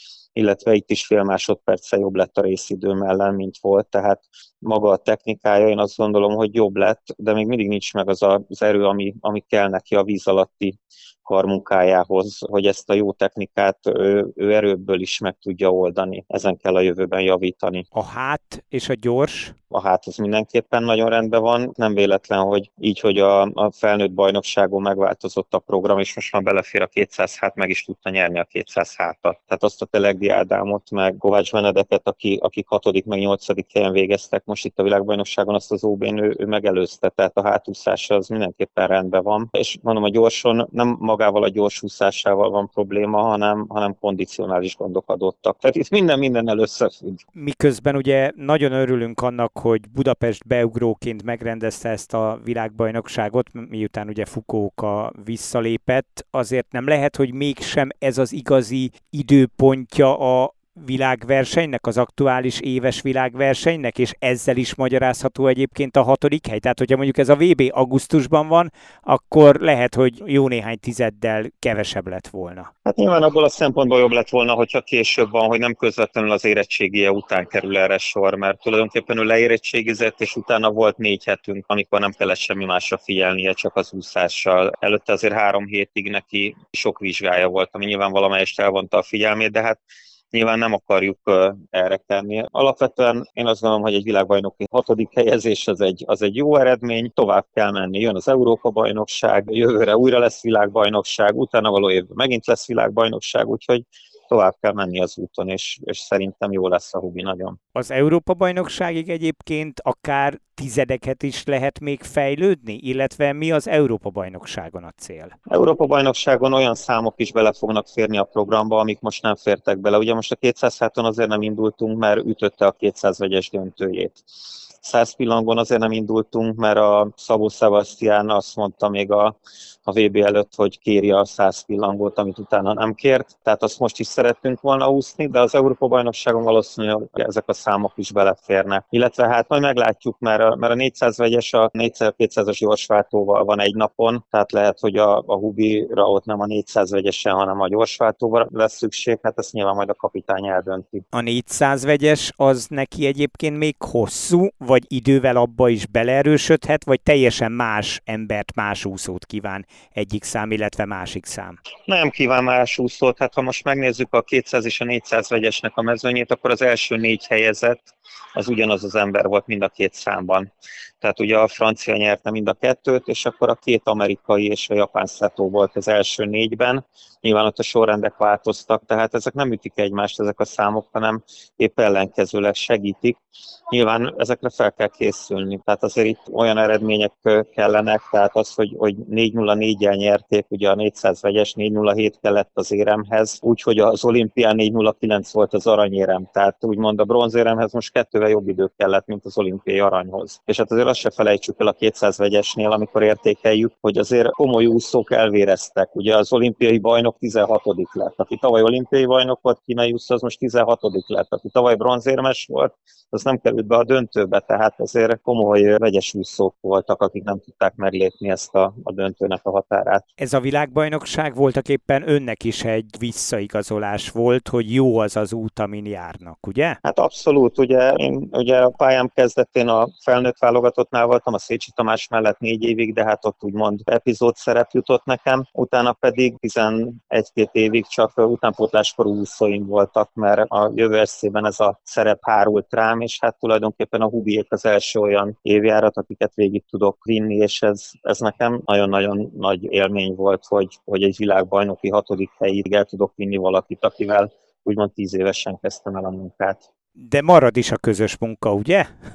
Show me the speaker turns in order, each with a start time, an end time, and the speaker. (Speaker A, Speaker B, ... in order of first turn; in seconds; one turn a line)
Speaker A: 0.3-17.9
Speaker B: 17.9-19.6
Speaker A: 19.7-47.2
Speaker B: 47.4-72.7
Speaker A: 72.8-89.8
Speaker A: 90.3-107.6
Speaker B: 107.8-115.3
Speaker A: 115.5-124.2
Speaker A: 124.8-151.0
Speaker B: 151.1-161.6
Speaker A: 161.9-170.5
Speaker A: 171.0-220.1
Speaker B: 220.2-226.8
Speaker A: 226.8-256.6
Speaker B: 257.0-258.9